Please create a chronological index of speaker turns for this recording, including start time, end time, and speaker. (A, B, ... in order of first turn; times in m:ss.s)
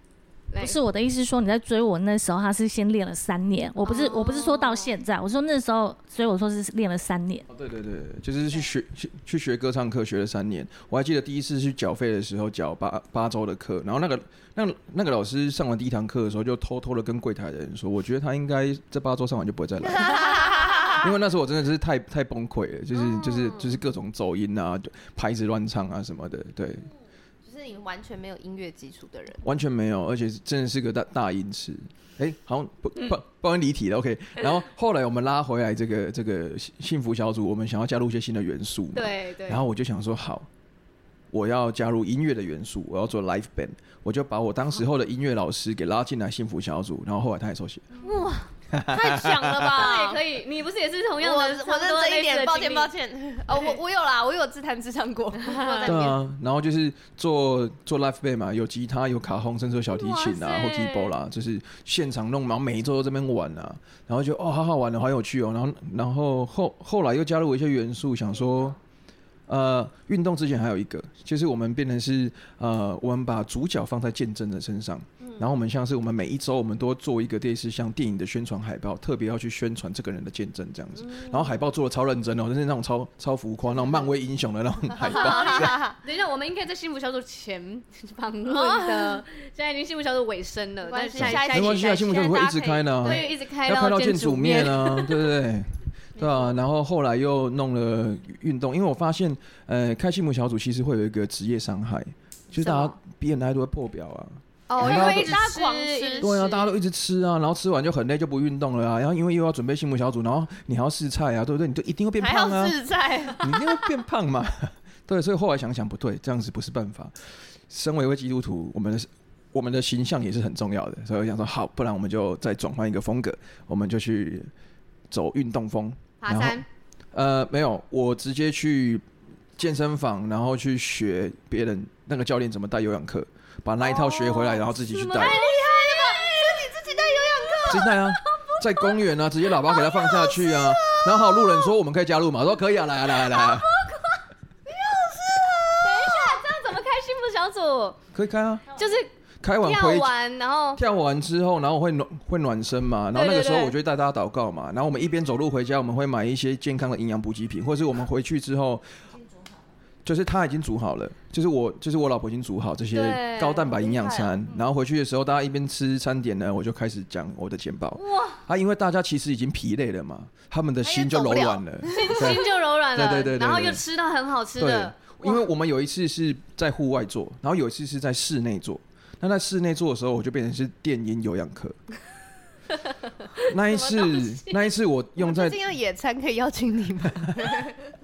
0:00.5-0:00.8 A
0:00.6-0:07.5 B
0:03.8-0:04.9 A
0:07.5-0:26.9 C
0:19.9-0:21.0 D
0:23.0-0:23.8 A
0:27.4-0:29.4 D
0:29.4-0:40.5 C
0:38.9-0:39.6 A
0:41.3-0:47.9 C
0:48.0-0:50.2 D
0:48.7-0:49.8 C
0:49.7-0:52.9 A
0:51.2-0:56.2 D
0:53.5-0:53.8 A
0:55.4-0:56.1 A
0:55.8-1:08.8 C
0:59.9-1:01.2 A
1:09.5-1:25.8 C
1:21.0-1:21.5 D
1:25.0-1:26.0 D
1:25.1-1:32.3 A
1:28.5-1:29.2 D
1:30.8-1:33.3 D
1:31.2-1:45.4 C
1:33.0-1:35.3 A
1:36.2-1:36.6 A
1:42.6-1:43.0 A
1:44.7-1:46.3 D
1:44.7-1:46.7 A
1:46.2-1:52.8 C
1:52.2-1:53.8 D
1:53.3-1:57.2 C
1:57.7-2:04.5 C
2:05.1-2:09.0 C
2:06.2-2:06.6 A
2:09.6-2:15.4 C
2:14.1-2:18.8 A
2:15.1-2:17.9 D
2:17.7-2:23.7 C
2:20.1-2:21.4 D
2:23.3-2:24.2 A
2:24.7-2:26.4 D
2:25.8-2:28.0 A
2:28.1-2:28.8 C
2:28.8-2:29.1 A
2:29.4-2:30.1 C
2:29.6-2:30.8 A
2:30.8-2:38.9 C
2:33.1-2:33.8 A
2:40.0-2:53.8 C
2:42.9-2:44.1 A
2:43.9-2:44.3 D
2:48.0-2:48.4 A
2:50.8-2:52.3 D
2:51.9-2:55.4 A
2:54.6-3:01.8 C
3:03.4-3:04.7 A
3:03.4-3:05.6 C
3:05.2-3:07.8 D